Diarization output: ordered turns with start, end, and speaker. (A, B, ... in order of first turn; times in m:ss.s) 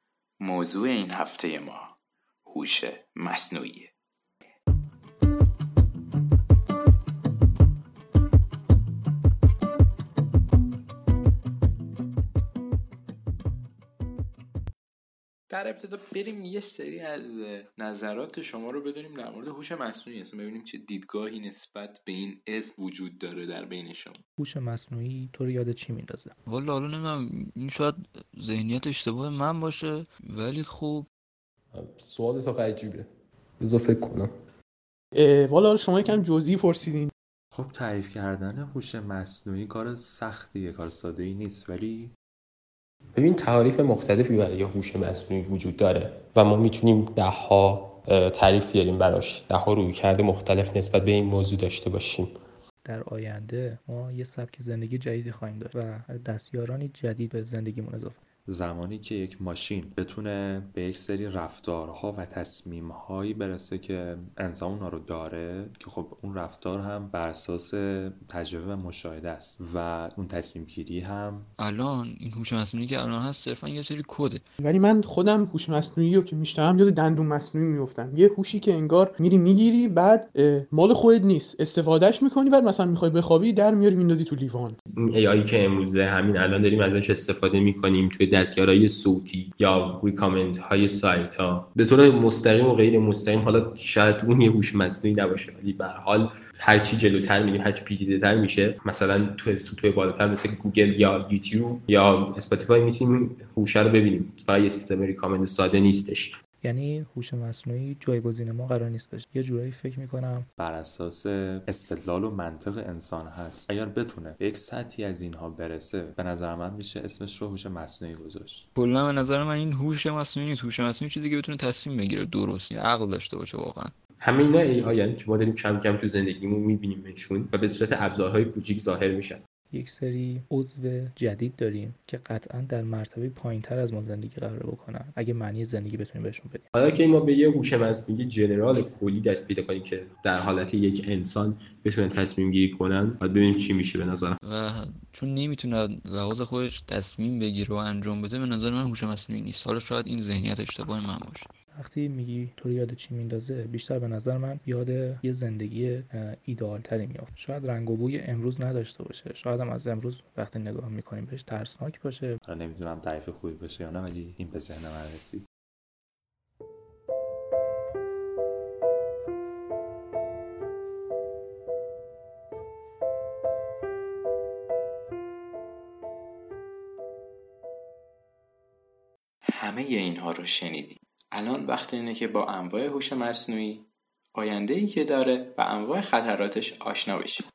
0:00.4-0:03.9 A
0:15.5-0:24.2 A
0:24.4-0:26.3 B
0:26.4-0:31.1 C
0:31.7-0:33.1 D
0:33.6-0:34.3 D
0:35.1-0:37.1 E
0:37.5-0:42.1 F
0:43.1-0:52.3 D
0:52.8-0:58.2 B
0:58.5-1:11.5 F
1:11.6-1:14.4 C
1:14.6-1:24.8 E
1:25.0-1:46.3 D
1:46.6-1:50.5 B
1:50.6-1:58.6 F
1:58.8-2:03.9 C
2:04.2-2:09.4 D
2:09.7-2:16.6 B
2:16.7-2:24.4 D
2:24.4-2:31.5 C
2:31.8-2:42.4 B
2:42.4-2:45.4 F
2:59.5-3:07.4 A